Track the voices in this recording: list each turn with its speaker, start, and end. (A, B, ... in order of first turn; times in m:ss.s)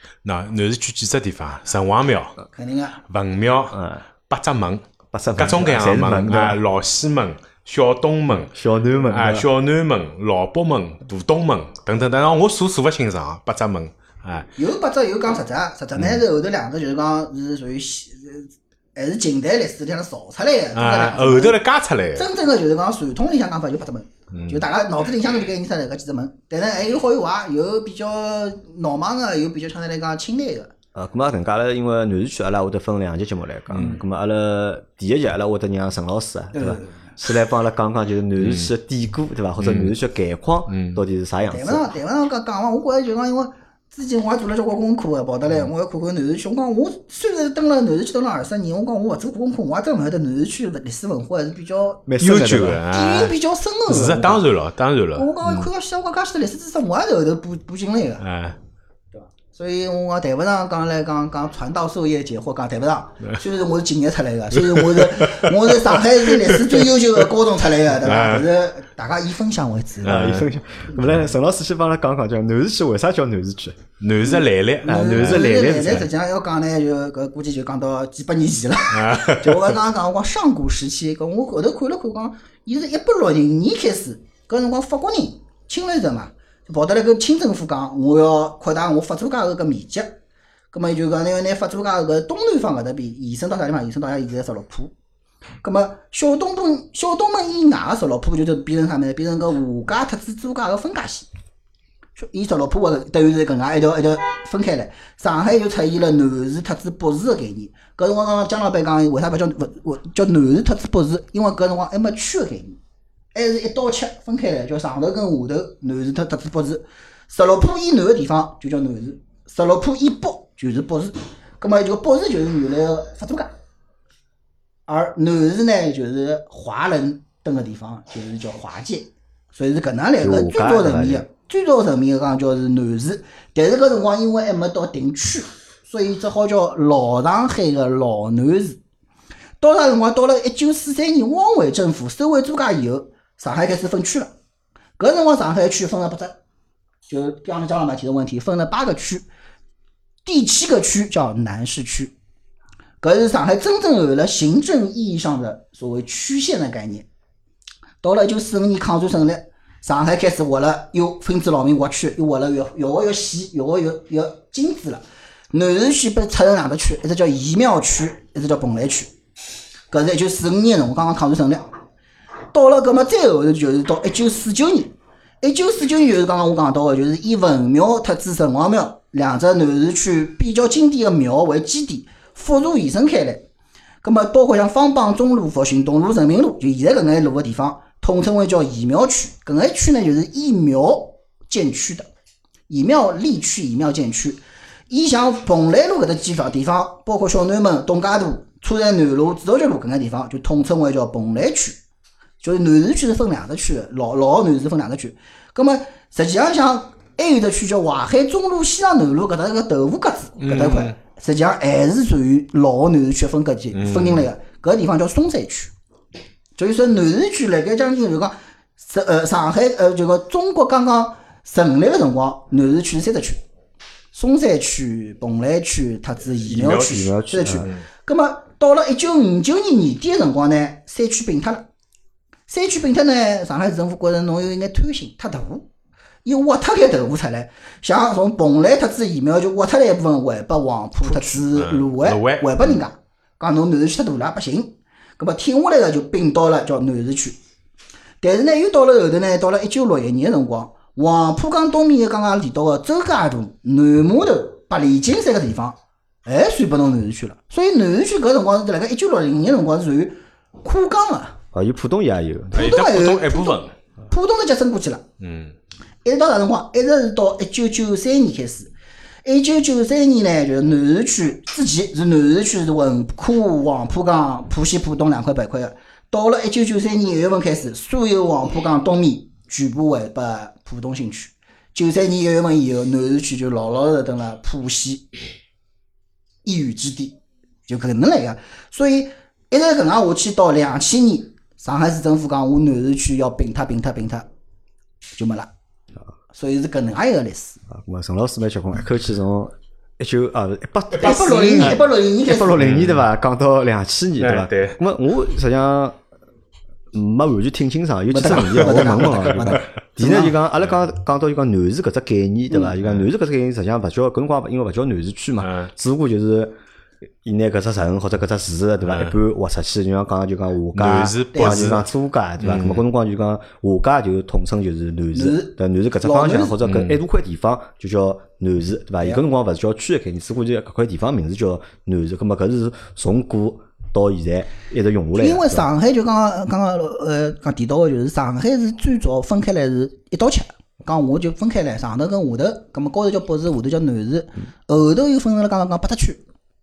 0:00.2-0:02.4 A
0:02.5-0:03.0 B
0:03.1-0:03.8 A
0:03.7-0:04.0 C
0:04.3-0:04.8 A
0:05.1-0:06.6 C
0:05.4-0:14.5 A
0:08.5-0:09.5 C
0:14.6-0:21.6 B
0:20.7-0:22.3 A
0:22.2-0:30.7 B
0:24.3-0:24.6 A
0:30.9-0:41.9 C
0:36.5-0:37.1 B
0:38.4-0:38.7 A
0:39.6-0:39.9 A
0:40.7-0:41.0 A
0:41.5-0:52.1 B
0:52.1-0:52.8 C
0:52.2-0:53.4 A
0:52.9-0:54.4 B
0:53.9-0:55.7 A
0:53.9-0:54.4 C
0:55.2-0:58.2 B
0:58.2-0:58.6 A
0:59.1-1:10.4 B
1:04.7-1:05.5 A
1:06.1-1:06.8 A
1:08.0-1:08.5 A
1:10.0-1:13.8 C
1:10.0-1:10.5 A
1:14.0-1:15.6 A
1:14.2-1:30.1 B
1:14.8-1:16.1 C
1:18.9-1:19.8 A
1:30.7-1:34.9 B
1:35.6-1:41.3 B
1:42.2-1:52.8 B
1:53.3-2:03.5 B
2:04.9-2:18.8 B
2:10.2-2:11.3 C
2:19.6-2:24.3 B
2:25.0-2:26.4 B
2:27.1-2:29.3 B
2:30.2-2:32.1 B
2:33.0-2:37.1 B
2:38.0-2:49.1 B
2:49.9-2:51.7 B
2:52.5-3:03.5 B
3:04.0-3:12.1 B
3:12.7-3:21.8 B
3:22.4-3:35.7 B
3:30.4-3:31.0 A
3:33.7-3:34.3 A
3:36.6-3:43.4 B
3:44.1-3:51.7 B
3:46.5-3:47.8 A
3:46.6-3:47.7 C
3:52.5-3:55.7 B
3:56.2-4:07.4 B
4:01.1-4:02.8 A
4:08.2-4:21.4 B
4:21.5-4:22.7 C
4:22.5-4:23.7 A
4:22.5-4:25.0 B
4:25.2-4:25.6 A
4:26.0-4:28.7 B
4:29.2-4:45.1 B
4:46.4-4:54.3 B
4:55.2-4:55.5 B
4:56.3-4:57.6 B
4:57.7-5:06.0 C
5:01.0-5:02.5 B
5:02.6-5:03.0 A
5:04.2-5:04.8 A
5:06.9-5:16.5 C
5:08.1-5:10.4 B
5:15.4-5:15.7 A
5:17.2-5:35.7 C
5:20.7-5:21.9 A
5:21.4-5:21.6 B
5:22.4-5:22.8 A
5:25.1-5:26.6 B
5:26.6-5:27.0 A
5:35.2-5:46.2 B